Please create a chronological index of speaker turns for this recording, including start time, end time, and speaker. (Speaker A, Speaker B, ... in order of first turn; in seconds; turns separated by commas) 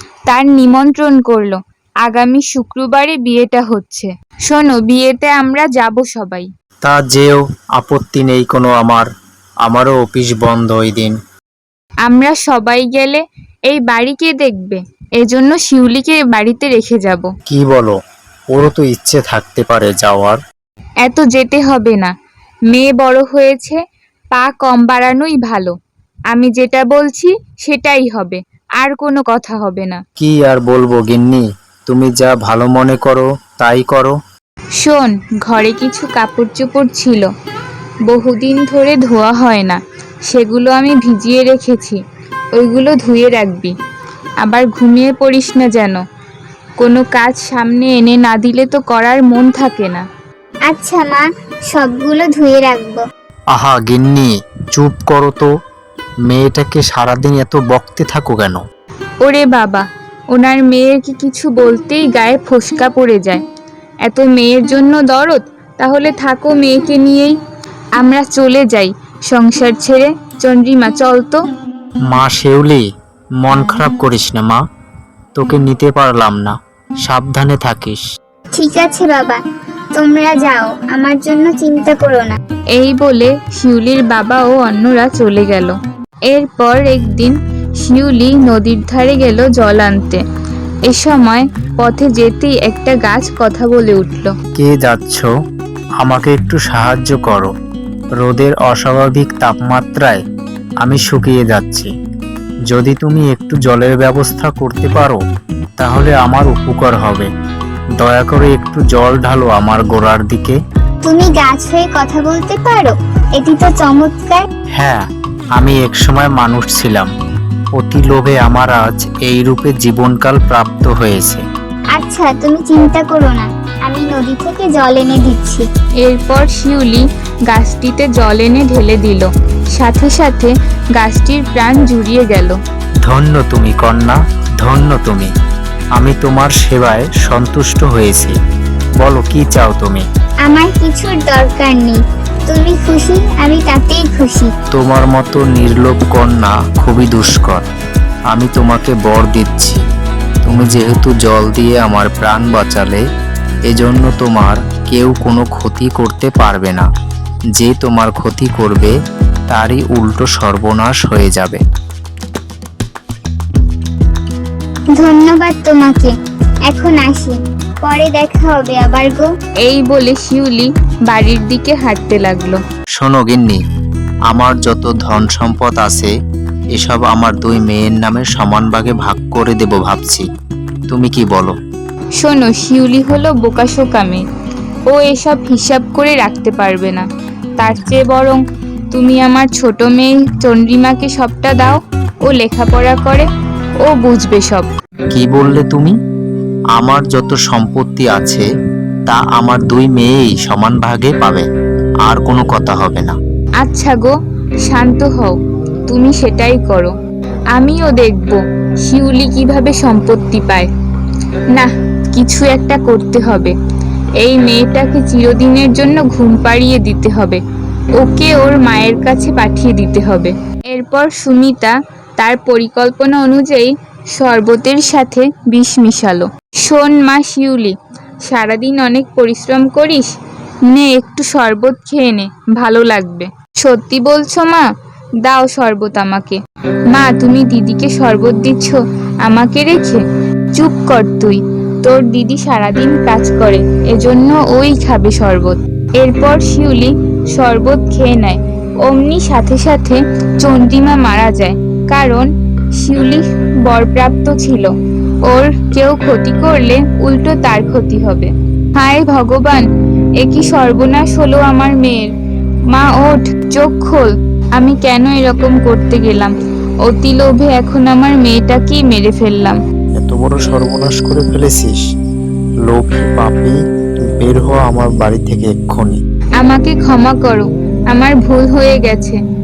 Speaker A: 0.3-6.5, Speaker B: 6.8-9.1, Speaker B: 9.6-11.1, Speaker A: 12.1-17.3, Speaker B: 17.5-17.9, Speaker B: 18.5-20.4, Speaker A: 21.0-22.1, Speaker A: 22.7-23.8, Speaker A: 24.3-25.7, Speaker A: 26.3-30.0, Speaker B: 30.2-34.2, Speaker A: 34.8-37.3, Speaker A: 38.1-42.0, Speaker A: 42.5-43.7, Speaker A: 44.4-46.0, Speaker A: 46.8-50.0, Speaker C: 50.7-53.0, Speaker B: 53.5-55.5, Speaker B: 56.3-58.6, Speaker A: 59.2-63.4, Speaker A: 64.0-67.3, Speaker A: 68.0-71.4, Speaker B: 72.1-72.8, Speaker B: 73.4-74.6, Speaker B: 75.3-78.0, Speaker C: 78.5-79.4, Speaker C: 79.9-82.3, Speaker A: 82.7-85.8, Speaker A: 86.3-90.2, Speaker A: 90.9-94.3, Speaker B: 94.5-95.3, Speaker B: 96.0-97.5, Speaker B: 98.2-100.2, Speaker B: 100.8-101.9, Speaker B: 102.7-105.2, Speaker B: 105.8-107.3, Speaker B: 108.0-110.6, Speaker C: 111.0-114.4, Speaker B: 115.5-117.1, Speaker B: 117.8-121.4, Speaker C: 121.9-125.6, Speaker A: 126.0-132.6, Speaker B: 133.1-135.3, Speaker B: 135.9-138.3, Speaker B: 139.0-140.0, Speaker C: 140.4-144.5, Speaker B: 144.7-147.6, Speaker B: 148.3-149.8, Speaker B: 150.4-153.0, Speaker B: 153.7-156.8, Speaker B: 157.5-158.9, Speaker B: 159.5-161.6, Speaker C: 165.0-166.1, Speaker C: 166.7-169.3, Speaker A: 169.6-172.6, Speaker B: 173.0-173.6, Speaker B: 174.3-176.1, Speaker B: 176.7-180.2, Speaker B: 180.9-181.5, Speaker A: 182.2-184.2, Speaker A: 184.9-187.0, Speaker A: 187.6-188.4, Speaker A: 188.9-193.3, Speaker A: 193.8-194.7, Speaker B: 195.1-195.9, Speaker B: 196.7-198.4, Speaker B: 199.1-201.4, Speaker B: 202.1-203.1, Speaker A: 203.6-204.1, Speaker A: 204.6-205.4, Speaker A: 205.9-206.9, Speaker A: 207.5-210.7, Speaker A: 211.5-213.5, Speaker A: 214.2-217.4, Speaker A: 218.0-227.7, Speaker A: 228.2-230.1, Speaker A: 230.7-234.6, Speaker A: 235.2-236.4, Speaker A: 236.9-240.0, Speaker A: 240.5-254.7, Speaker A: 255.2-259.6, Speaker A: 260.2-262.1, Speaker A: 262.7-266.3, Speaker A: 266.8-269.6, Speaker B: 270.0-271.8, Speaker B: 272.7-276.0, Speaker A: 276.4-279.2